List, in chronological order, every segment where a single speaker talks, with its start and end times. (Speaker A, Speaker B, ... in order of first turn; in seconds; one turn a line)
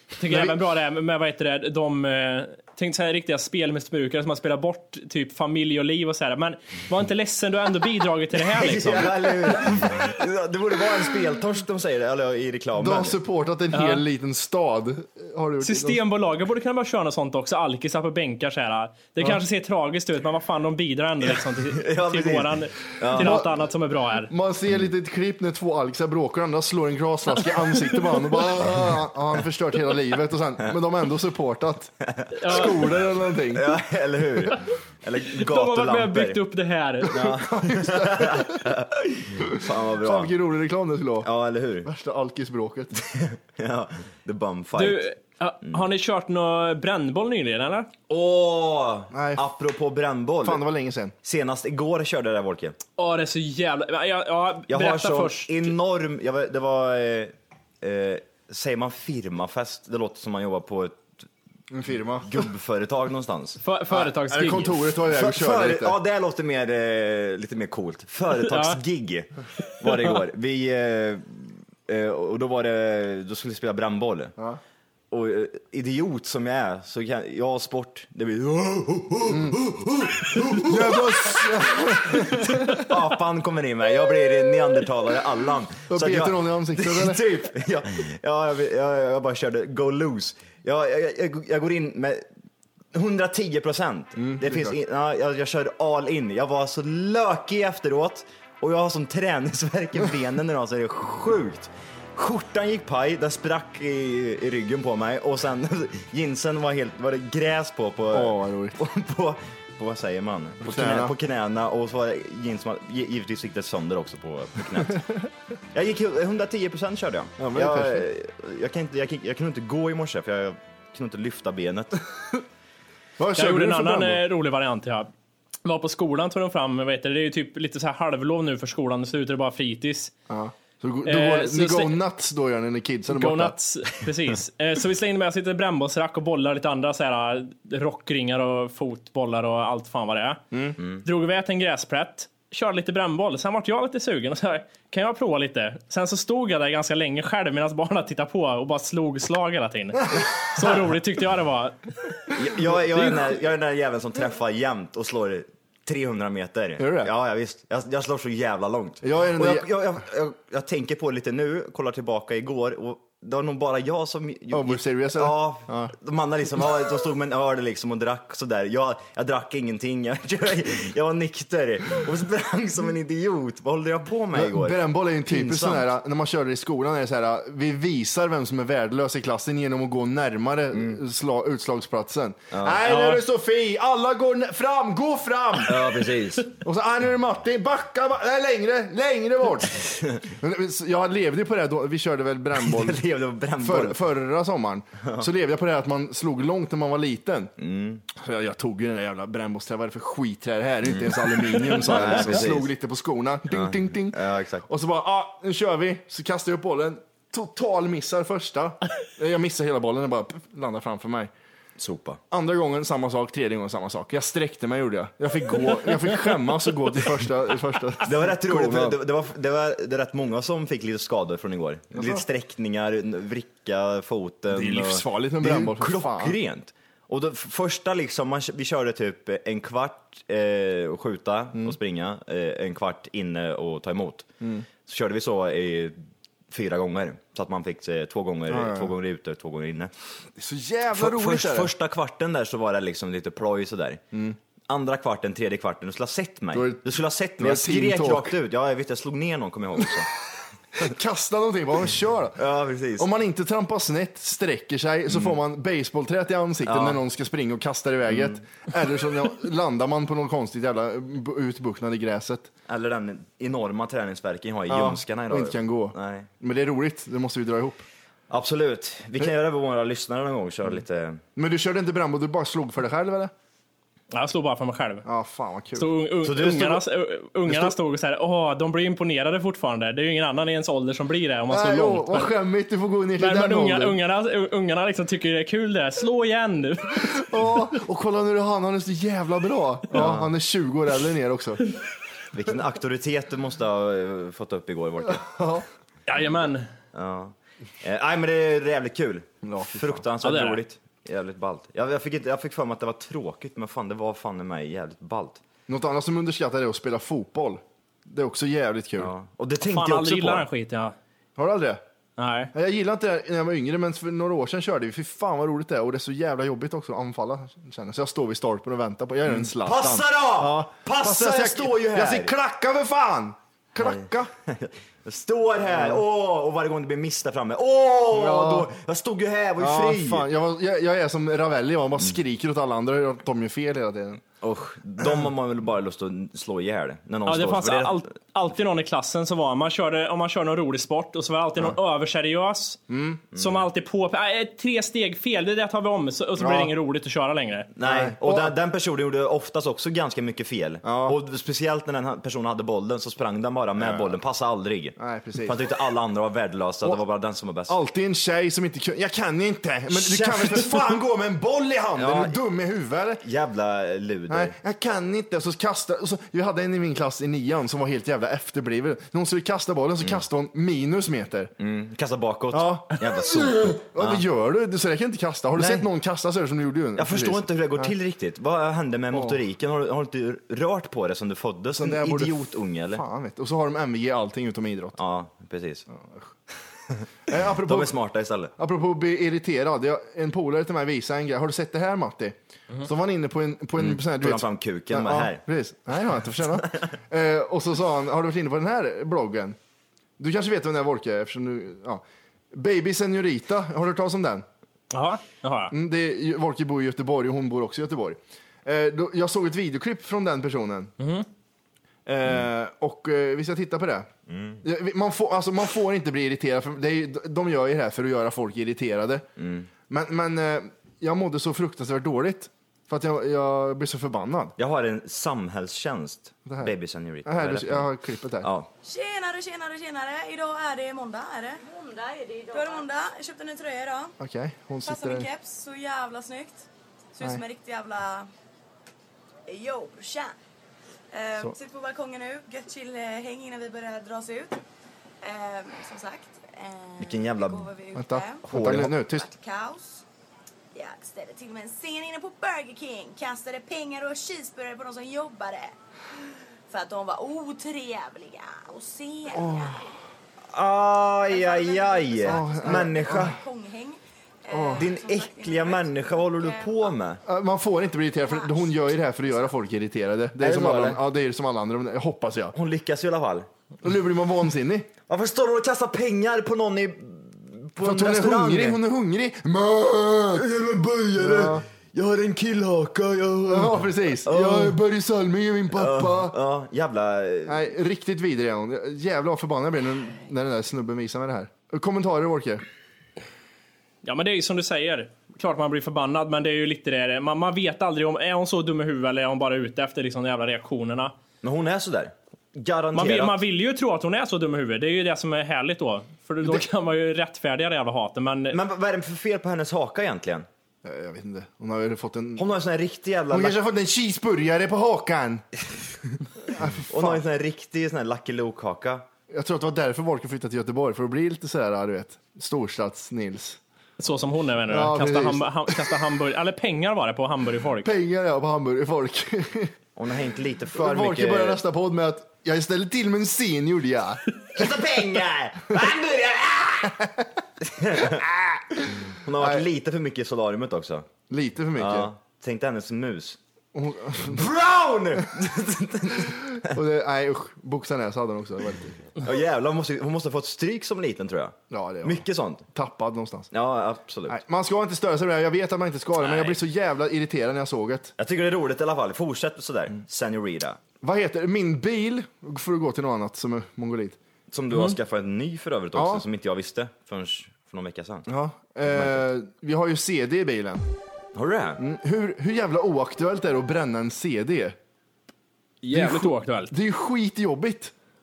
Speaker A: 0.2-9.7
Speaker B: 0.2-0.6
Speaker C: 8.5-13.2
Speaker B: 12.8-16.0
Speaker A: 13.7-14.0
Speaker A: 15.6-24.3
Speaker C: 21.2-23.4
Speaker B: 23.1-23.5
Speaker B: 24.2-31.9
Speaker C: 32.2-32.7
Speaker A: 32.4-32.7
Speaker B: 32.4-33.8
Speaker C: 33.5-36.4
Speaker A: 35.4-37.2
Speaker B: 37.1-38.7
Speaker C: 37.1-40.4
Speaker B: 39.4-41.3
Speaker C: 41.2-41.9
Speaker B: 41.8-42.9
Speaker C: 43.0-45.1
Speaker A: 44.8-47.9
Speaker C: 48.1-50.6
Speaker B: 49.1-49.5
Speaker B: 50.4-51.1
Speaker C: 51.2-52.8
Speaker A: 53.0-55.7
Speaker C: 54.7-61.1
Speaker B: 61.7-62.5
Speaker C: 62.2-63.6
Speaker A: 63.6-64.8
Speaker B: 63.9-66.0
Speaker C: 65.1-74.3
Speaker A: 68.5-68.8
Speaker C: 75.1-92.2
Speaker B: 79.3-79.6
Speaker B: 80.6-82.8
Speaker B: 85.9-87.3
Speaker C: 92.9-115.1
Speaker B: 94.2-94.8
Speaker B: 108.1-108.8
Speaker B: 110.6-111.1
Speaker C: 115.7-122.0
Speaker B: 117.4-118.1
Speaker B: 123.2-124.2
Speaker A: 123.4-125.1
Speaker A: 125.6-130.1
Speaker B: 130.3-133.6
Speaker A: 131.0-132.0
Speaker A: 133.1-140.4
Speaker B: 140.5-140.8
Speaker A: 141.0-152.1
Speaker C: 152.3-175.9
Speaker A: 152.9-153.2
Speaker B: 156.8-157.1
Speaker B: 159.0-159.7
Speaker B: 164.5-165.9
Speaker B: 174.3-186.0
Speaker C: 180.7-181.0
Speaker C: 182.5-182.8
Speaker A: 182.9-183.2
Speaker C: 185.7-186.6
Speaker B: 186.6-193.0
Speaker C: 192.6-194.0
Speaker B: 193.6-197.5
Speaker C: 197.6-198.0
Speaker B: 198.1-211.3
Speaker C: 201.0-202.7
Speaker C: 203.5-204.6
Speaker C: 211.8-212.2
Speaker B: 212.3-219.0
Speaker C: 218.0-234.3
Speaker B: 221.9-222.2
Speaker B: 224.5-226.4
Speaker C: 234.9-236.0
Speaker C: 236.5-239.9
Speaker B: 238.5-238.9
Speaker B: 240.4-241.7
Speaker C: 240.9-244.0
Speaker C: 244.7-250.1
Speaker B: 246.5-246.8
Speaker B: 247.4-248.3
Speaker B: 250.8-252.4
Speaker C: 252.4-253.1
Speaker B: 253.0-262.5
Speaker C: 255.1-255.3
Speaker C: 256.6-257.0
Speaker C: 258.1-258.4
Speaker C: 262.7-266.3
Speaker B: 264.7-267.8
Speaker C: 268.3-271.2
Speaker B: 271.4-273.3
Speaker A: 274.1-275.1
Speaker B: 275.0-275.9
Speaker A: 275.8-282.3
Speaker C: 276.2-276.8
Speaker B: 281.5-284.0
Speaker A: 283.2-287.2
Speaker B: 287.0-291.6
Speaker C: 289.9-290.3
Speaker C: 292.3-295.3
Speaker B: 295.1-295.7
Speaker A: 296.1-296.7
Speaker C: 296.9-305.4
Speaker B: 299.4-300.0
Speaker A: 300.2-300.6
Speaker B: 305.7-309.1
Speaker C: 309.0-310.4
Speaker A: 309.6-310.9
Speaker B: 311.4-311.8
Speaker A: 312.2-312.5
Speaker B: 312.5-324.3
Speaker C: 319.3-322.3
Speaker C: 323.8-330.3
Speaker B: 325.7-326.0
Speaker B: 328.1-328.7
Speaker B: 329.6-334.2
Speaker C: 334.4-338.0
Speaker B: 335.0-335.2
Speaker A: 337.3-342.8
Speaker B: 342.9-343.2
Speaker C: 343.3-343.6
Speaker A: 343.3-347.7
Speaker B: 346.4-346.7
Speaker C: 347.8-357.8
Speaker B: 347.8-348.5
Speaker B: 350.8-351.2
Speaker B: 353.8-354.2
Speaker B: 355.0-355.6
Speaker B: 357.7-363.2
Speaker C: 359.9-361.0
Speaker C: 362.0-362.3
Speaker C: 363.2-364.5
Speaker B: 364.3-371.5
Speaker C: 371.6-374.2
Speaker B: 372.5-377.9
Speaker C: 375.6-375.9
Speaker C: 377.0-383.0
Speaker B: 379.1-379.4
Speaker B: 381.8-385.0
Speaker C: 385.0-385.9
Speaker B: 385.9-386.3
Speaker B: 387.3-387.9
Speaker C: 387.6-388.5
Speaker B: 388.6-399.6
Speaker C: 393.8-395.4
Speaker B: 400.2-404.4
Speaker A: 404.9-405.7
Speaker B: 405.7-410.9
Speaker A: 411.0-411.2
Speaker B: 412.1-414.1
Speaker C: 414.3-414.6
Speaker B: 414.6-419.2
Speaker C: 419.4-419.7
Speaker B: 419.9-424.5
Speaker C: 424.6-427.9
Speaker B: 426.5-426.7
Speaker B: 427.2-428.5
Speaker C: 428.4-428.7
Speaker D: 428.8-434.1
Speaker B: 434.2-435.3
Speaker D: 434.8-438.3
Speaker D: 439.5-440.3
Speaker D: 441.1-444.6
Speaker D: 445.2-450.0
Speaker C: 447.0-447.7
Speaker B: 447.9-449.3
Speaker C: 448.5-449.0
Speaker D: 450.7-455.8
Speaker D: 456.7-459.9
Speaker B: 459.3-459.9
Speaker C: 460.5-463.4
Speaker D: 461.3-466.9
Speaker B: 462.2-463.4
Speaker B: 464.5-464.9
Speaker C: 464.8-467.2
Speaker B: 467.2-472.5
Speaker D: 468.2-468.9
Speaker C: 470.4-471.0
Speaker C: 472.5-473.5
Speaker B: 473.8-474.9
Speaker C: 475.1-478.8
Speaker B: 477.8-480.5
Speaker C: 480.3-484.8
Speaker B: 481.2-481.6
Speaker B: 483.5-486.4
Speaker C: 485.7-487.7
Speaker B: 487.5-492.6
Speaker A: 494.0-501.1
Speaker C: 501.4-503.4
Speaker A: 502.9-508.6
Speaker C: 508.5-510.5
Speaker B: 510.8-512.4
Speaker C: 512.4-513.6
Speaker B: 513.3-515.5
Speaker B: 516.5-517.2
Speaker C: 516.9-519.0
Speaker B: 519.3-523.6
Speaker A: 524.0-527.9
Speaker B: 524.7-526.0
Speaker B: 527.8-529.7
Speaker C: 530.0-531.6
Speaker B: 530.7-534.2
Speaker C: 534.5-537.0
Speaker B: 536.8-537.2
Speaker C: 537.6-541.1
Speaker B: 538.9-539.7
Speaker B: 541.3-542.1
Speaker C: 541.8-543.4
Speaker B: 543.7-544.5
Speaker C: 544.2-546.7
Speaker B: 546.2-549.0
Speaker C: 549.2-552.6
Speaker B: 551.7-553.5
Speaker C: 553.5-554.4
Speaker B: 554.3-558.1
Speaker C: 558.2-560.8
Speaker B: 561.0-564.2
Speaker C: 564.5-568.3
Speaker B: 565.9-566.2
Speaker B: 568.3-570.9
Speaker C: 568.9-569.2
Speaker C: 571.3-571.8
Speaker B: 571.8-574.8
Speaker A: 575.8-576.7
Speaker B: 575.9-577.9